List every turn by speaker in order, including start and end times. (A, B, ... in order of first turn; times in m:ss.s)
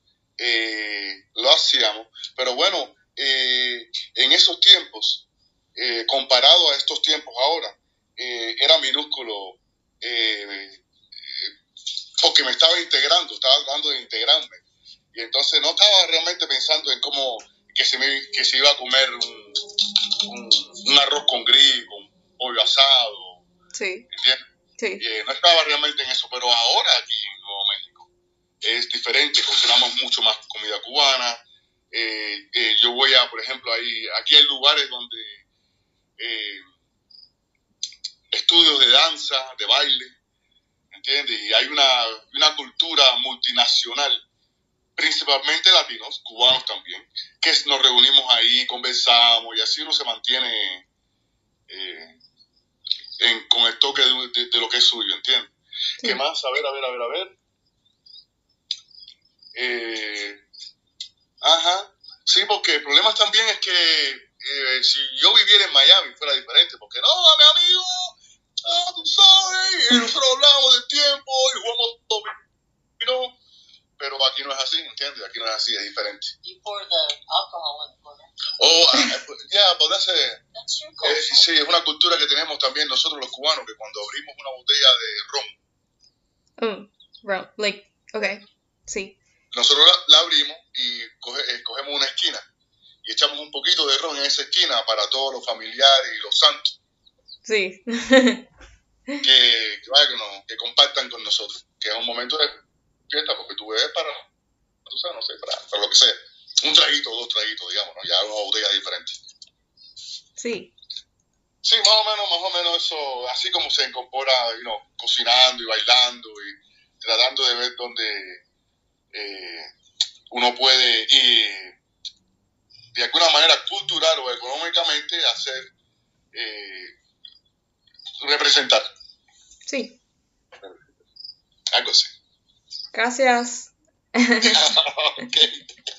0:00.4-0:11.5 A
0:12.2-0:14.6 A
0:15.1-0:19.7 A
0:20.2-0:23.4 A
0:23.7-0:24.0 B
0:24.1-0:24.4 A
0:24.8-0:25.0 B
0:25.0-0:28.1 A
0:28.6-0:31.4 A
0:31.9-0:35.4 A
0:36.2-0:36.6 A
0:38.3-0:40.1 A
0:40.9-0:44.2 A
0:45.0-0:50.8 A
0:51.7-0:52.2 A
0:53.2-0:57.3 A
0:59.5-1:00.4 A
1:01.4-1:12.3 A
1:13.0-1:13.4 A
1:14.0-1:16.3 A
1:16.4-1:18.3 C
1:18.6-1:20.4 A
1:20.5-1:21.5 C
1:21.0-1:25.6 A
1:26.6-1:29.2 B
1:29.5-1:32.4 A
1:33.0-1:36.7 A
1:37.4-1:38.4 B
1:39.2-1:42.5 A
1:43.1-1:44.2 A
1:44.8-1:49.2 A
1:50.4-1:50.7 B
1:51.6-1:58.4 A
1:59.1-1:59.7 A
2:00.3-2:01.8 A
2:02.9-2:05.7 A
2:06.3-2:06.9 A
2:08.2-2:08.8 A
2:09.6-2:10.0 B
2:11.7-2:12.1 A
2:12.9-2:14.6 B
2:14.4-2:15.6 A